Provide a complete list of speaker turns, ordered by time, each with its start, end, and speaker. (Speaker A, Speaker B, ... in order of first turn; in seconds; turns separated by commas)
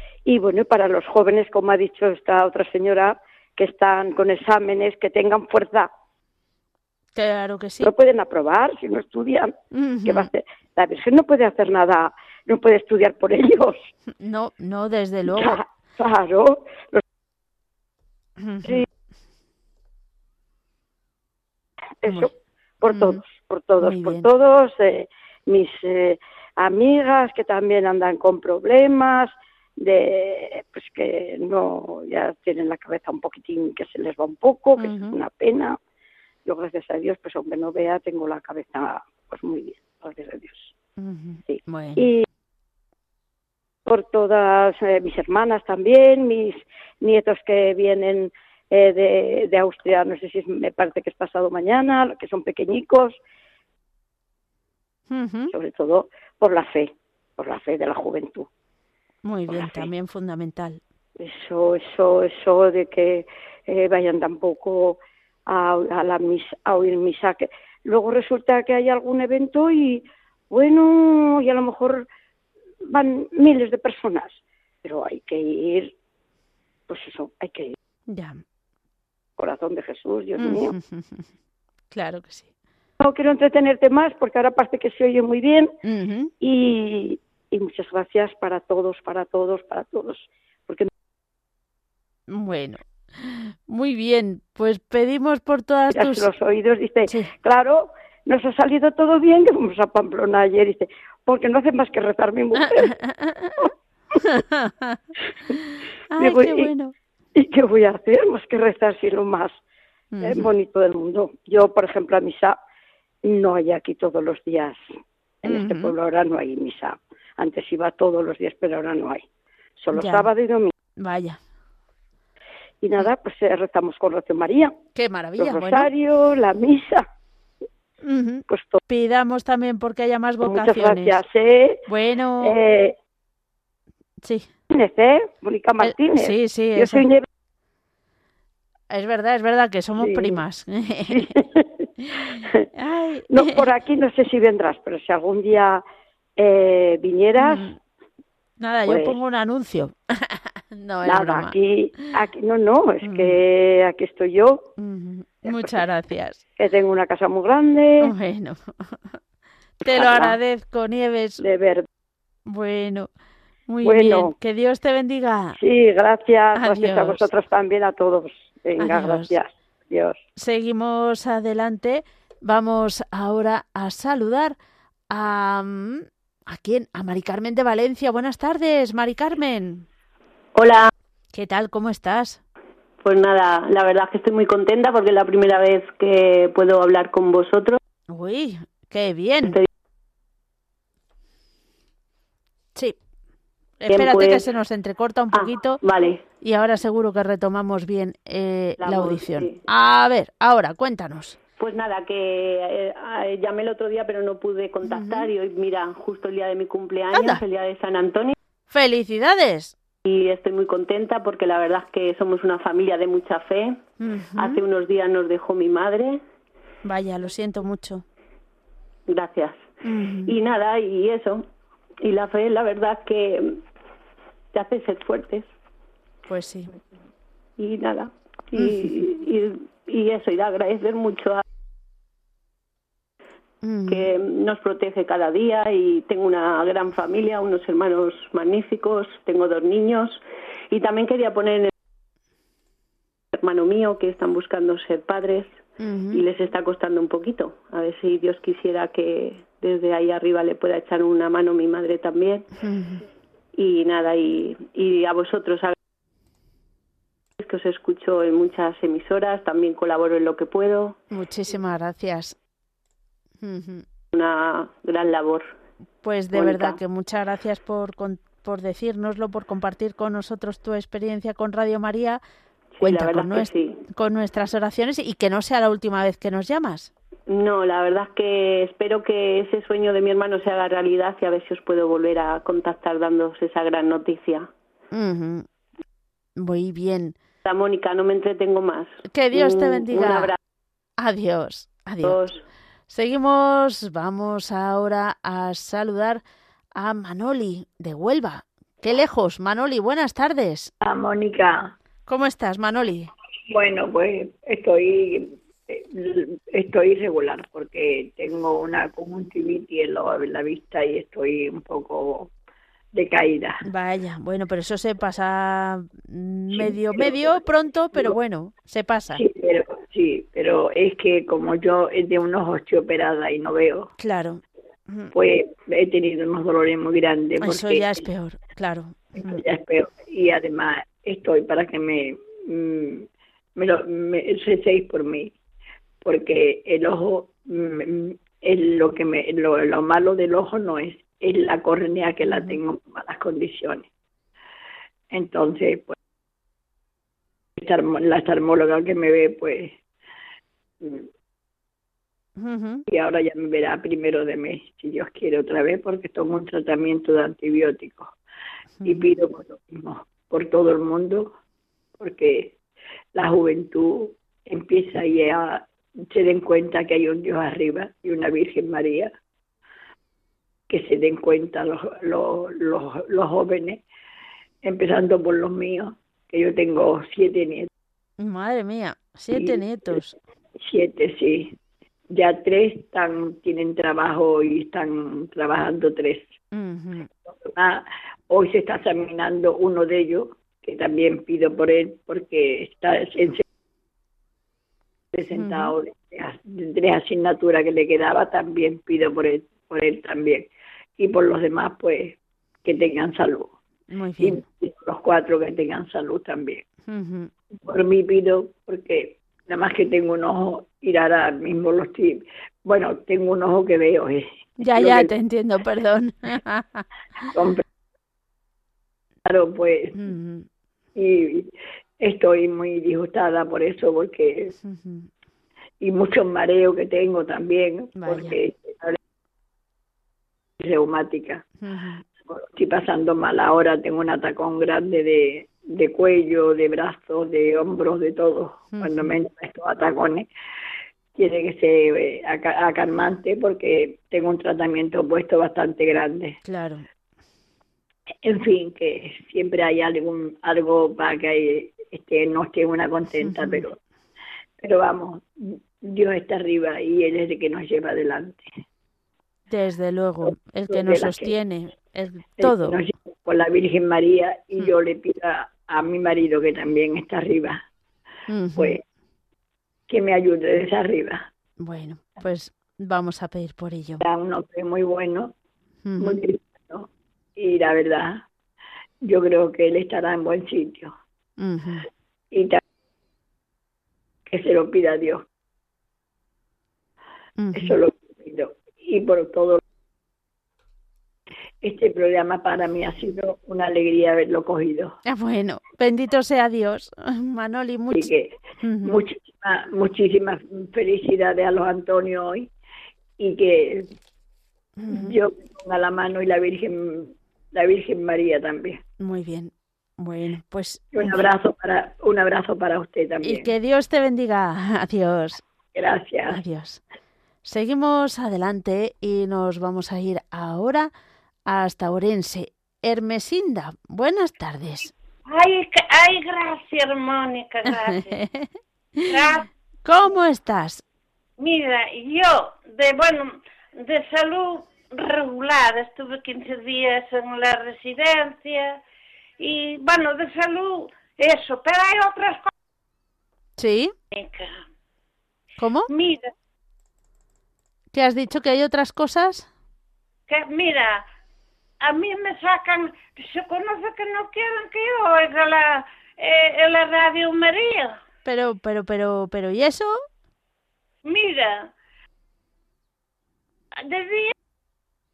Speaker A: 0.3-5.9, Speaker B: 7.2-7.9, Speaker A: 7.8-9.5, Speaker B: 9.7-10.3, Speaker A: 10.1-13.9, Speaker B: 14.2-15.6, Speaker A: 15.3-17.0, Speaker B: 18.4-18.9, Speaker A: 22.0-35.8, Speaker B: 22.9-23.2, Speaker B: 23.8-24.3, Speaker B: 34.8-35.1, Speaker A: 36.5-40.8, Speaker B: 41.0-42.1, Speaker A: 41.5-42.3, Speaker A: 43.9-53.2, Speaker B: 55.1-55.5, Speaker A: 55.5-58.5, Speaker B: 59.2-60.8, Speaker A: 59.5-59.9, Speaker A: 61.2-72.1, Speaker A: 72.9-75.9, Speaker A: 76.9-77.8, Speaker B: 78.1-78.4, Speaker A: 79.4-80.8, Speaker B: 80.4-81.3, Speaker B: 81.9-82.5, Speaker A: 83.0-85.7, Speaker B: 85.8-86.3, Speaker A: 86.4-90.9, Speaker B: 92.3-96.3, Speaker A: 95.9-102.9, Speaker B: 102.8-105.0, Speaker B: 106.1-106.9, Speaker A: 106.2-106.7, Speaker A: 107.4-109.6, Speaker B: 110.1-110.5, Speaker A: 110.2-112.6, Speaker A: 113.2-114.8, Speaker A: 115.4-119.2, Speaker B: 115.5-115.9, Speaker A: 119.8-120.7, Speaker B: 120.0-120.3, Speaker B: 121.0-121.4, Speaker A: 122.8-124.7, Speaker B: 125.0-125.9, Speaker A: 125.4-127.1, Speaker B: 128.0-131.2, Speaker A: 128.5-128.8, Speaker A: 130.4-131.8, Speaker B: 131.9-132.6, Speaker A: 132.4-132.9, Speaker B: 134.2-134.5, Speaker A: 134.7-137.3, Speaker B: 135.8-137.0, Speaker B: 138.9-141.3, Speaker A: 140.0-140.4, Speaker A: 141.1-142.7, Speaker B: 142.1-143.6, Speaker A: 143.3-145.8, Speaker A: 146.4-147.7, Speaker B: 147.4-147.8, Speaker B: 148.6-151.6, Speaker A: 148.9-149.2, Speaker A: 151.1-154.7, Speaker B: 153.0-153.3, Speaker B: 154.8-156.4, Speaker A: 156.6-158.1, Speaker B: 158.0-159.2, Speaker B: 159.8-161.5, Speaker A: 159.8-160.4, Speaker A: 161.4-161.9, Speaker B: 162.5-163.1, Speaker B: 163.7-165.6, Speaker A: 163.8-164.3, Speaker A: 165.6-170.2, Speaker B: 166.6-167.2, Speaker B: 168.8-169.3, Speaker B: 170.4-174.6, Speaker B: 175.1-179.9, Speaker C: 180.6-180.9, Speaker B: 181.3-182.4, Speaker C: 183.0-187.8, Speaker B: 188.1-189.6, Speaker B: 193.8-195.8, Speaker C: 193.9-194.4, Speaker C: 195.3-196.2, Speaker B: 196.4-201.4, Speaker C: 198.8-199.6, Speaker C: 201.6-208.3, Speaker B: 204.8-205.3, Speaker B: 207.1-207.4, Speaker B: 208.7-209.8, Speaker C: 210.1-213.8, Speaker B: 214.0-214.6, Speaker C: 214.4-216.2, Speaker B: 216.8-218.1, Speaker C: 219.1-219.7, Speaker B: 219.8-220.3, Speaker C: 220.3-221.4, Speaker C: 222.0-223.6, Speaker C: 224.5-225.5, Speaker B: 226.3-226.7, Speaker C: 227.6-231.4, Speaker B: 228.6-228.9, Speaker B: 233.6-234.1, Speaker C: 233.9-241.7, Speaker C: 243.3-245.6, Speaker B: 245.8-246.2, Speaker C: 246.1-252.5, Speaker B: 252.6-253.0, Speaker C: 253.6-255.8, Speaker C: 257.4-261.0, Speaker B: 261.1-262.4, Speaker B: 263.4-263.9, Speaker C: 264.1-265.5, Speaker B: 266.0-272.2, Speaker C: 266.3-266.8, Speaker C: 272.8-273.8, Speaker B: 272.8-276.9, Speaker C: 277.3-284.5, Speaker B: 284.9-285.5, Speaker B: 286.4-287.2, Speaker C: 287.4-290.4, Speaker B: 289.1-290.4, Speaker B: 291.0-292.3, Speaker C: 292.0-292.4, Speaker B: 292.9-296.2, Speaker B: 296.8-300.7, Speaker D: 300.8-301.7, Speaker B: 302.1-303.1, Speaker D: 303.5-312.3, Speaker D: 312.9-313.6, Speaker B: 313.7-319.2, Speaker D: 316.5-318.2, Speaker D: 319.1-323.9, Speaker B: 324.0-325.1, Speaker D: 325.1-328.1, Speaker B: 327.4-329.4, Speaker D: 329.2-335.4, Speaker D: 336.0-343.9, Speaker B: 342.3-342.6, Speaker D: 345.1-346.0, Speaker D: 347.6-349.8, Speaker D: 350.8-351.1, Speaker B: 352.4-352.8, Speaker D: 352.9-358.1, Speaker B: 358.8-359.0, Speaker D: 358.9-361.4, Speaker D: 362.0-362.6, Speaker D: 363.1-369.1, Speaker D: 370.7-373.8, Speaker D: 374.6-377.7, Speaker B: 378.2-380.2, Speaker D: 379.4-380.0, Speaker D: 380.6-381.6, Speaker D: 382.1-386.4, Speaker B: 386.5-387.1, Speaker D: 387.2-393.4, Speaker D: 395.1-403.6, Speaker B: 395.4-395.7, Speaker B: 403.9-404.4, Speaker D: 404.2-406.6, Speaker B: 406.9-407.3, Speaker D: 407.6-415.1, Speaker B: 414.6-416.9, Speaker D: 417.3-417.6, Speaker D: 419.2-420.0, Speaker B: 420.0-420.5, Speaker D: 421.0-424.5, Speaker B: 424.6-425.1, Speaker D: 425.8-429.0, Speaker B: 428.0-428.4, Speaker D: 430.6-431.4, Speaker B: 431.6-432.0, Speaker D: 432.3-440.3, Speaker B: 438.7-439.1, Speaker D: 441.2-446.4, Speaker B: 446.4-446.9, Speaker D: 448.2-453.8, Speaker B: 453.3-453.6, Speaker D: 454.6-458.5, Speaker B: 459.5-462.8, Speaker D: 460.3-461.4, Speaker D: 462.4-467.6, Speaker B: 468.3-468.8, Speaker D: 469.9-471.3, Speaker B: 471.6-474.0, Speaker D: 474.0-475.3, Speaker B: 475.8-476.2, Speaker D: 476.0-478.2, Speaker D: 479.0-480.9, Speaker B: 481.4-481.9, Speaker D: 482.3-482.6, Speaker D: 484.3-485.2, Speaker B: 487.4-487.8, Speaker D: 487.6-489.6, Speaker D: 491.6-495.0, Speaker B: 495.1-498.1, Speaker D: 497.9-502.5, Speaker B: 498.6-499.0, Speaker D: 503.2-503.9, Speaker B: 504.8-505.1, Speaker D: 504.9-508.8, Speaker B: 509.0-511.2, Speaker D: 510.9-513.5, Speaker B: 513.2-515.4, Speaker D: 515.7-516.4, Speaker B: 516.3-516.8, Speaker B: 517.4-520.9, Speaker B: 521.5-524.9, Speaker E: 525.3-528.2, Speaker B: 527.7-530.8, Speaker E: 529.1-529.5, Speaker E: 531.4-538.8, Speaker E: 539.4-542.5, Speaker B: 543.6-543.9, Speaker E: 544.1-544.6, Speaker B: 545.6-545.9, Speaker E: 545.9-546.3, Speaker B: 547.9-549.5, Speaker E: 550.3-551.0, Speaker E: 551.8-558.0, Speaker B: 558.2-559.9, Speaker E: 561.0-561.7, Speaker E: 563.8-564.3